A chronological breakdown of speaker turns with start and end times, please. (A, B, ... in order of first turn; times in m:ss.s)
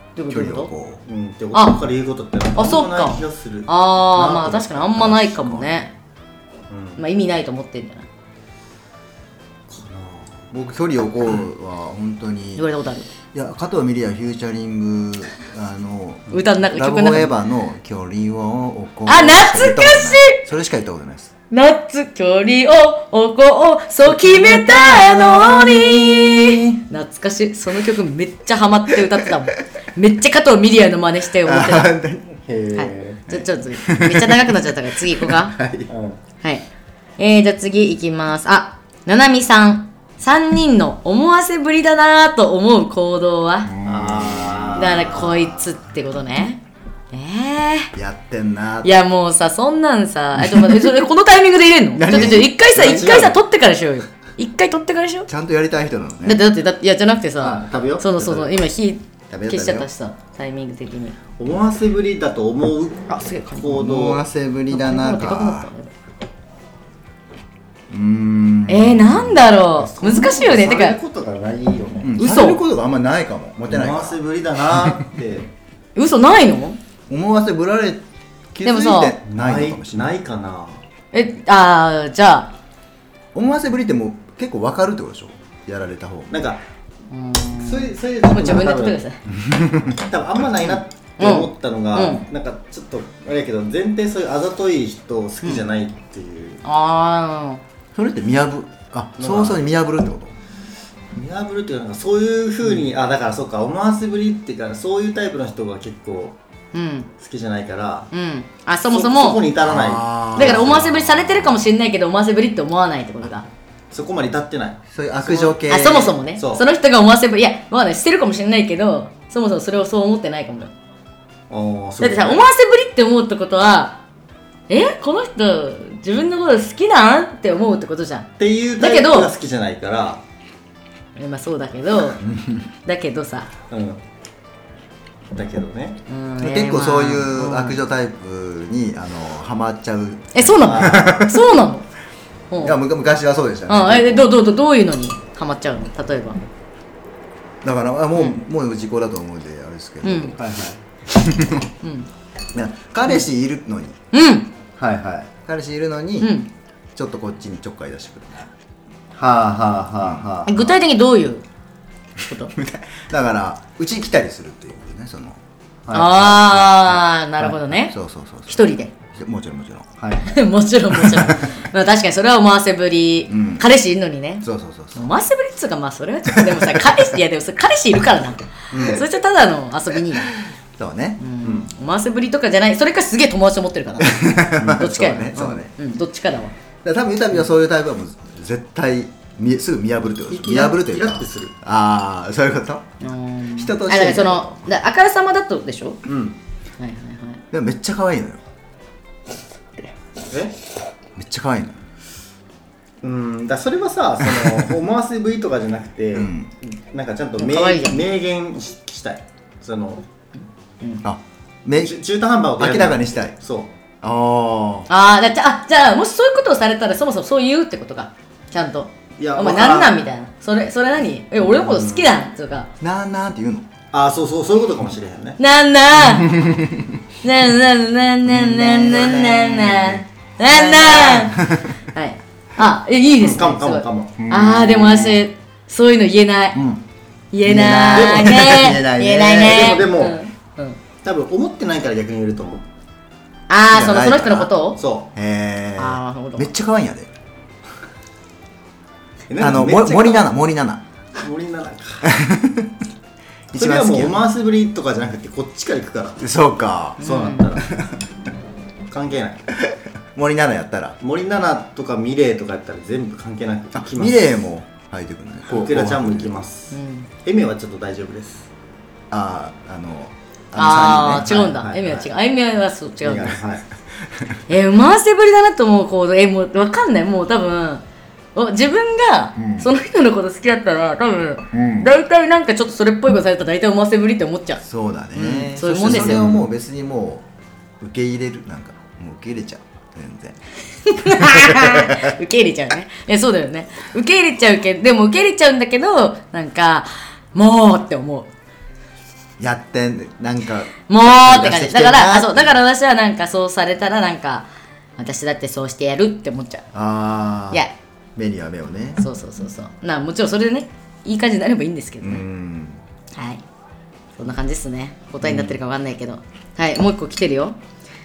0:00.2-0:00.7 A
0:00.3-0:01.0 B
0:01.1-0:04.7 C
0:01.5-0:01.8 A
0:02.6-0:05.9 A
0:04.4-0:05.8 B
0:06.7-0:07.0 C
0:07.0-0:08.1 A
0:09.7-0:10.5 C
0:10.5-0:12.7 B
0:12.6-0:13.1 A
0:13.3-0:21.3 B
0:16.3-0:17.4 A
0:19.1-0:20.4 A
0:21.5-0:31.9 A
0:24.2-0:26.6 B
0:29.0-0:29.4 B
0:31.4-0:32.4 B
0:32.5-0:33.3 C
0:32.7-0:35.6 A
0:33.3-0:35.9 B
0:35.9-0:36.2 C
0:37.2-0:43.7 A
0:43.7-0:45.6 B
0:43.8-0:45.3 C
0:44.8-0:46.6 A
0:47.1-0:47.9 A
0:47.9-0:48.9 B
0:48.8-0:55.3 A
0:50.4-0:51.0 B
0:51.9-0:53.4 B
0:52.8-0:53.3 C
0:55.3-0:56.4 B
0:56.2-1:01.2 A
0:57.4-0:58.5 C
0:59.3-0:59.9 B
1:01.4-1:04.2 C
1:03.1-1:03.8 A
1:03.7-1:05.7 B
1:04.7-1:05.9 A
1:07.9-1:09.5 B
1:08.7-1:11.0 A
1:09.8-1:12.1 C
1:12.0-1:15.0 B
1:12.2-1:12.6 A
1:13.7-1:15.5 C
1:16.0-1:16.8 A
1:17.1-1:20.1 B
1:18.6-1:19.2 A
1:19.3-1:20.8 C
1:21.1-1:22.5 A
1:23.3-1:26.3 B
1:26.3-1:26.6 C
1:27.1-1:29.2 A
1:27.6-1:29.0 C
1:29.4-1:30.0 B
1:30.0-1:36.6 C
1:31.2-1:32.2 A
1:36.6-1:37.6 A
1:38.0-1:40.4 B
1:39.2-1:39.6 C
1:41.1-1:46.4 C
1:46.7-1:47.1 A
1:47.2-1:48.1 C
1:48.1-1:49.4 A
1:48.9-1:50.9 C
1:49.6-1:51.6 B
1:50.4-1:53.5 A
1:53.9-1:56.6 C
1:54.9-1:56.1 B
1:55.7-2:00.7 A
2:01.5-2:02.4 C
2:02.0-2:04.0 A
2:04.7-2:09.3 A
2:08.4-2:10.2 C
2:11.2-2:12.3 A
2:12.2-2:12.7 B
2:12.8-2:13.5 A
2:13.7-2:14.0 C
2:15.3-2:16.0 C
2:16.1-2:17.8 A
2:16.4-2:21.5 B
2:20.3-2:21.9 A
2:20.6-2:21.3 C
2:22.5-2:22.8 A
2:22.6-2:24.3 B
2:23.7-2:26.4 A
2:27.6-2:30.4 B
2:30.0-2:30.4 A
2:30.4-2:30.8 C
2:31.1-2:31.6 B
2:31.8-2:32.1 A
2:32.5-2:34.0 B
2:34.1-2:34.5 A
2:34.8-2:35.3 C
2:35.4-2:36.4 B
2:36.2-2:36.5 A
2:37.0-2:38.5 B
2:39.2-2:40.7 C
2:40.0-2:40.3 B
2:40.4-2:41.4 A
2:42.2-2:42.5 A
2:42.5-2:45.4 B
2:45.8-2:46.4 C
2:45.9-2:48.0 A
2:46.2-2:49.9 B
2:48.5-2:48.9 A
2:50.0-2:50.3 C
2:50.2-3:00.3 A
2:51.0-2:51.4 B
2:53.3-2:53.7 B
2:54.4-2:55.1 B
2:56.3-2:57.0 B
2:58.7-2:59.0 C
2:58.7-2:59.0 B
3:00.8-3:01.2 B
3:01.2-3:06.5 A
3:01.4-3:01.7 C
3:04.0-3:05.7 B
3:04.6-3:04.9 C
3:06.8-3:12.9 B
3:10.3-3:11.6 C
3:13.0-3:16.0 A
3:13.6-3:14.7 B
3:16.1-3:16.4 C
3:16.8-3:17.4 A
3:17.5-3:18.4 B
3:20.3-3:20.6 C
3:21.2-3:21.8 B
3:23.0-3:30.0 C
3:24.3-3:24.7 B
3:26.2-3:26.5 B
3:27.4-3:28.0 A
3:31.0-3:32.0 B
3:31.8-3:33.7 C
3:32.6-3:33.4 B
3:34.0-3:34.9 B
3:34.9-3:42.7 A
3:39.2-3:40.0 C
3:41.4-3:42.1 C
3:42.8-3:43.7 B
3:43.9-3:45.4 C
3:45.4-3:46.4 A
3:46.0-3:47.0 B
3:47.2-3:56.6 A
3:48.3-3:50.0 B
3:50.7-3:51.2 C
3:50.9-3:51.7 B
3:53.2-3:54.3 C
3:54.2-3:55.2 B
3:56.5-3:56.8 C
3:57.3-4:00.8 A
3:57.4-3:59.8 B
3:57.9-3:58.6 C
3:59.4-4:00.2 C
4:01.0-4:02.6 C
4:03.5-4:04.8 A
4:03.7-4:04.5 B
4:04.8-4:05.1 C
4:05.1-4:07.1 B
4:05.8-4:06.5 A
4:09.3-4:10.3 C
4:09.4-4:10.8 B
4:11.2-4:12.2 C
4:12.0-4:12.7 B
4:13.5-4:14.2 B
4:13.5-4:16.2 C
4:16.2-4:17.0 B
4:17.0-4:17.5 A
4:17.0-4:17.8 C
4:17.6-4:18.0 B
4:18.9-4:19.5 C
4:19.5-4:21.0 B
4:21.0-4:24.4 C
4:23.7-4:26.4 B
4:25.5-4:28.5 C
4:26.7-4:27.1 A
4:29.1-4:31.4 B
4:30.6-4:33.4 A
4:30.9-4:32.1 C
4:33.0-4:33.6 C
4:34.5-4:37.8 A
4:38.4-4:44.6 A
4:39.4-4:39.7 B
4:41.5-4:41.9 B
4:44.6-4:47.3 B
4:45.2-4:46.4 A
4:45.9-4:46.4 C
4:47.8-4:50.4 B
4:50.8-4:58.3 A
4:51.0-4:52.1 B
4:59.4-5:02.6 B
5:00.9-5:04.5 A
5:05.0-5:06.7 A
5:06.7-5:07.6 B
5:08.2-5:09.0 B
5:09.0-5:12.3 A
5:12.0-5:12.8 B
5:13.1-5:13.4 A
5:14.2-5:17.6 A
5:15.2-5:15.5 B